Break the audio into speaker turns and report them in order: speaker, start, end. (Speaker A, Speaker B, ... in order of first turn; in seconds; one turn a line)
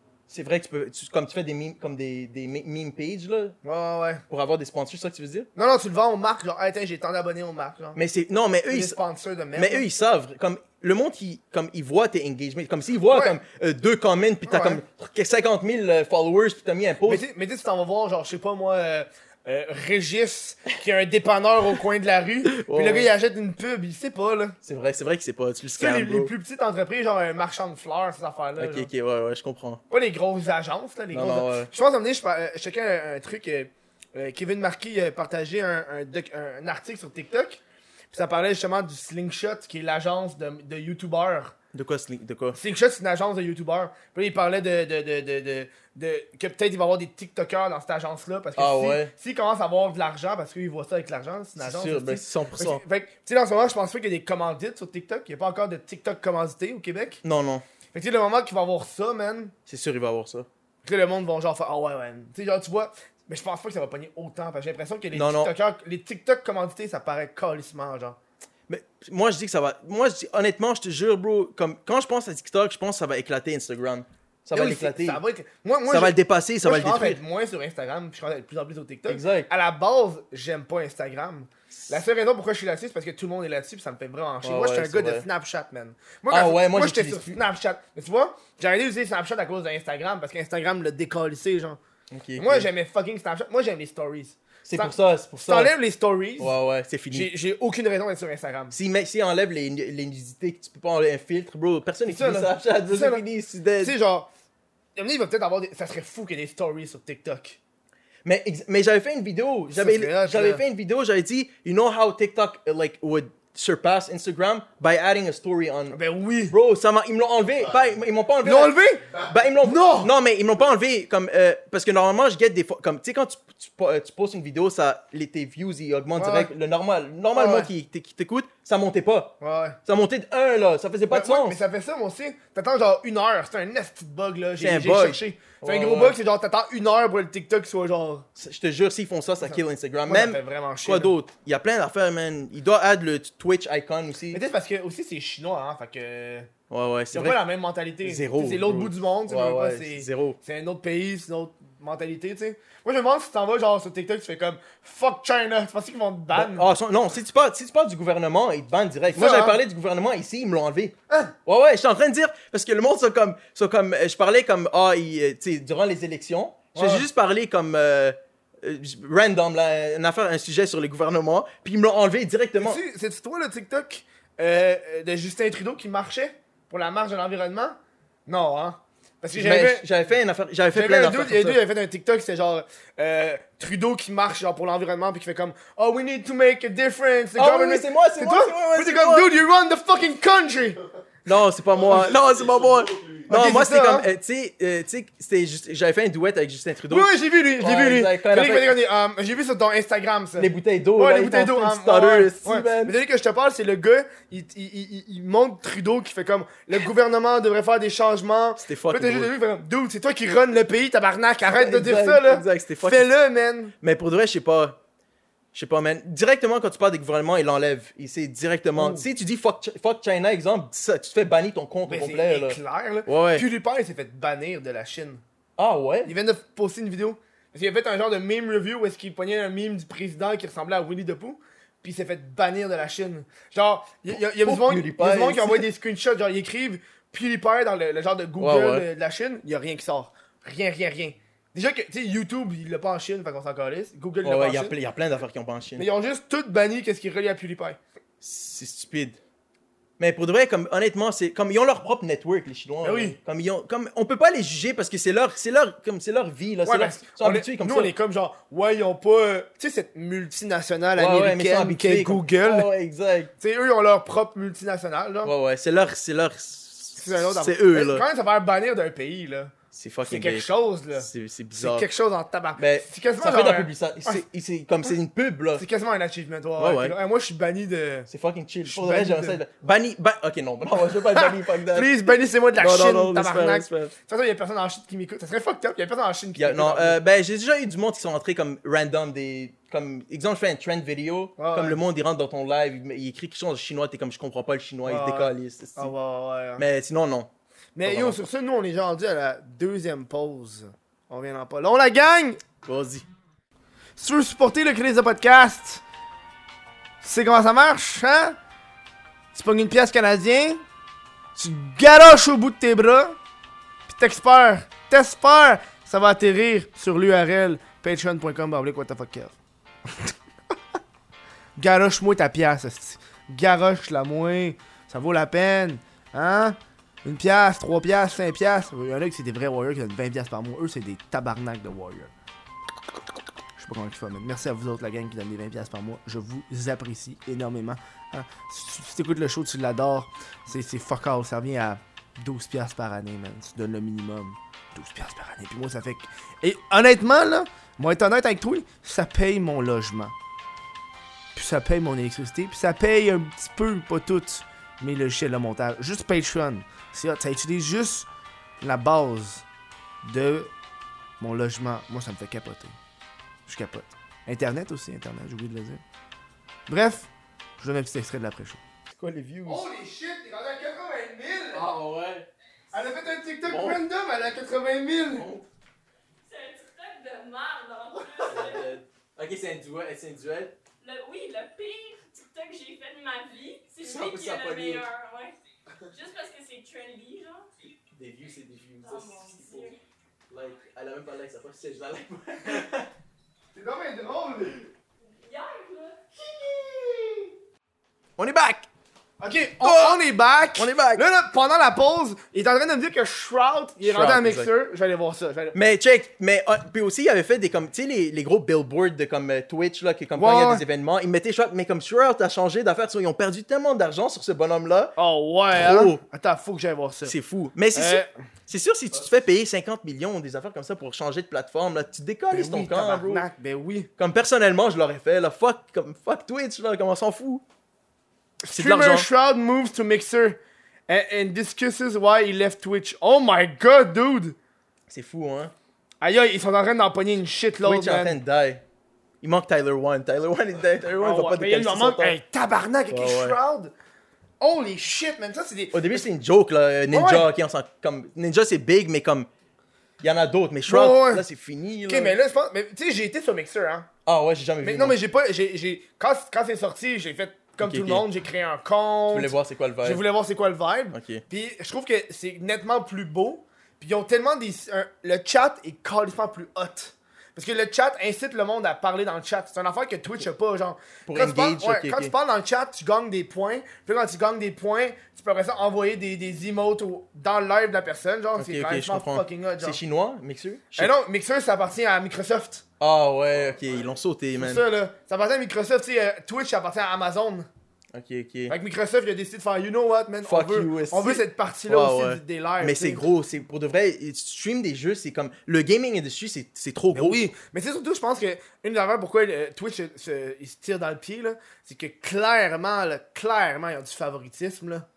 Speaker A: 0.3-3.5
Speaker B: 3.6-4.2
Speaker A: 4.3-5.5
Speaker B: 5.5-8.0
Speaker A: 7.9-9.0
Speaker B: 8.7-9.8
Speaker A: 9.6-17.2
Speaker B: 13.1-13.3
Speaker B: 14.4-14.8
Speaker B: 17.1-24.6
Speaker A: 22.4-23.1
Speaker A: 24.6-26.3
Speaker B: 25.7-28.9
Speaker A: 28.6-29.8
Speaker B: 29.9-37.6
Speaker A: 31.1-31.7
Speaker B: 38.1-41.5
Speaker A: 41.7-42.6
Speaker B: 42.5-57.2
Speaker A: 48.6-49.1
Speaker A: 51.6-52.8
Speaker A: 57.2-57.6
Speaker B: 57.9-59.5
Speaker A: 59.7-60.5
Speaker B: 60.8-68.2
Speaker A: 65.1-65.5
Speaker A: 68.7-75.2
Speaker B: 74.5-91.8
Speaker A: 75.9-77.2
Speaker A: 79.1-79.5
Speaker A: 84.4-85.2
Speaker A: 86.3-87.4
Speaker A: 92.1-92.7
Speaker B: 92.4-96.5
Speaker A: 94.7-95.7
Speaker A: 96.4-97.3
Speaker B: 97.1-98.7
Speaker A: 98.7-103.9
Speaker B: 102.0-103.2
Speaker B: 103.8-104.3
Speaker B: 105.0-107.6
Speaker A: 108.2-116.0
Speaker B: 109.7-110.6
Speaker B: 115.9-116.5
Speaker A: 116.5-131.6
Speaker B: 118.4-119.1
Speaker B: 119.6-120.1
Speaker B: 126.1-126.5
Speaker B: 127.3-127.7
Speaker B: 129.4-129.8
Speaker B: 131.1-138.3
Speaker A: 134.6-136.2
Speaker A: 138.3-144.4
Speaker B: 139.4-141.1
Speaker B: 144.3-146.5
Speaker A: 146.7-147.4
Speaker B: 147.1-156.7
Speaker A: 148.0-150.4
Speaker A: 156.3-160.9
Speaker B: 159.1-159.6
Speaker B: 161.1-161.3
Speaker A: 161.4-172.8
Speaker B: 166.7-167.1
Speaker B: 172.6-179.8
Speaker A: 179.3-181.6
Speaker B: 180.7-190.8
Speaker A: 187.3-189.3
Speaker A: 191.2-198.8
Speaker B: 193.3-194.1
Speaker B: 196.9-213.7
Speaker A: 200.4-202.9
Speaker A: 208.6-209.3
Speaker A: 211.5-213.1
Speaker A: 213.8-214.8
Speaker A: 215.5-223.4
Speaker B: 218.8-219.1
Speaker B: 221.8-225.2
Speaker A: 225.6-226.1
Speaker B: 226.0-244.7
Speaker A: 234.1-235.7
Speaker A: 238.4-238.8
Speaker A: 244.2-245.9
Speaker B: 245.8-247.8
Speaker A: 248.2-249.2
Speaker A: 250.0-257.9
Speaker B: 252.8-253.2
Speaker B: 256.6-262.7
Speaker A: 260.9-263.3
Speaker B: 263.4-265.3
Speaker A: 265.2-268.0
Speaker B: 266.9-269.5
Speaker A: 269.7-271.9
Speaker B: 270.0-274.2
Speaker A: 272.6-275.6
Speaker B: 275.6-278.1
Speaker A: 276.6-276.9
Speaker A: 278.1-281.9
Speaker B: 278.6-279.4
Speaker B: 281.0-287.0
Speaker A: 282.6-283.9
Speaker A: 286.4-295.9
Speaker B: 291.4-291.8
Speaker B: 294.9-296.6
Speaker A: 296.6-297.3
Speaker B: 297.8-302.4
Speaker A: 297.8-298.2
Speaker A: 302.6-303.1
Speaker B: 304.0-305.8
Speaker B: 307.0-308.4
Speaker B: 309.3-310.6
Speaker B: 311.4-313.2
Speaker B: 313.9-319.4
Speaker B: 319.9-320.1
Speaker B: 321.6-332.1
Speaker B: 333.6-350.1
Speaker B: 351.3-358.1
Speaker B: 358.6-359.4
Speaker B: 360.0-360.5
Speaker B: 361.2-362.8
Speaker B: 363.4-365.8
Speaker B: 366.7-368.6
Speaker A: 368.9-369.6
Speaker B: 369.4-371.7
Speaker A: 371.5-372.3
Speaker B: 372.7-375.2
Speaker A: 373.4-373.8
Speaker A: 375.1-375.5
Speaker C: 376.2-378.7
Speaker A: 378.2-380.5
Speaker C: 380.8-385.3
Speaker A: 383.8-384.9
Speaker C: 385.9-387.5
Speaker A: 387.9-389.7
Speaker C: 388.8-389.8
Speaker A: 390.3-392.9
Speaker B: 393.5-394.7
Speaker C: 395.1-396.0
Speaker B: 396.1-397.3
Speaker A: 398.2-398.7
Speaker B: 399.2-405.6
Speaker A: 399.6-400.0
Speaker A: 400.5-401.0
Speaker A: 403.8-404.5
Speaker A: 405.5-414.9
Speaker B: 410.1-410.6
Speaker B: 414.9-417.1
Speaker A: 415.5-416.0
Speaker A: 417.0-423.2
Speaker B: 417.7-418.1
Speaker B: 422.3-423.9
Speaker A: 424.0-427.4
Speaker B: 428.4-434.4
Speaker A: 428.5-429.1
Speaker A: 434.9-435.5
Speaker B: 436.0-438.1
Speaker A: 437.6-438.6
Speaker A: 439.2-442.2
Speaker B: 441.0-443.7
Speaker A: 442.9-443.4
Speaker B: 444.4-446.1
Speaker A: 445.7-449.3
Speaker B: 446.9-447.3
Speaker A: 450.0-452.1
Speaker B: 450.7-451.2
Speaker B: 451.9-453.9
Speaker A: 454.1-455.0
Speaker B: 454.6-479.8
Speaker A: 457.6-458.1
Speaker A: 459.1-460.0
Speaker A: 460.9-461.2
Speaker A: 471.1-472.1
Speaker A: 478.4-480.9
Speaker B: 480.7-482.6
Speaker A: 482.8-484.6
Speaker B: 484.4-487.5
Speaker A: 487.9-488.5
Speaker B: 488.5-493.1
Speaker A: 490.2-497.2
Speaker B: 496.9-504.9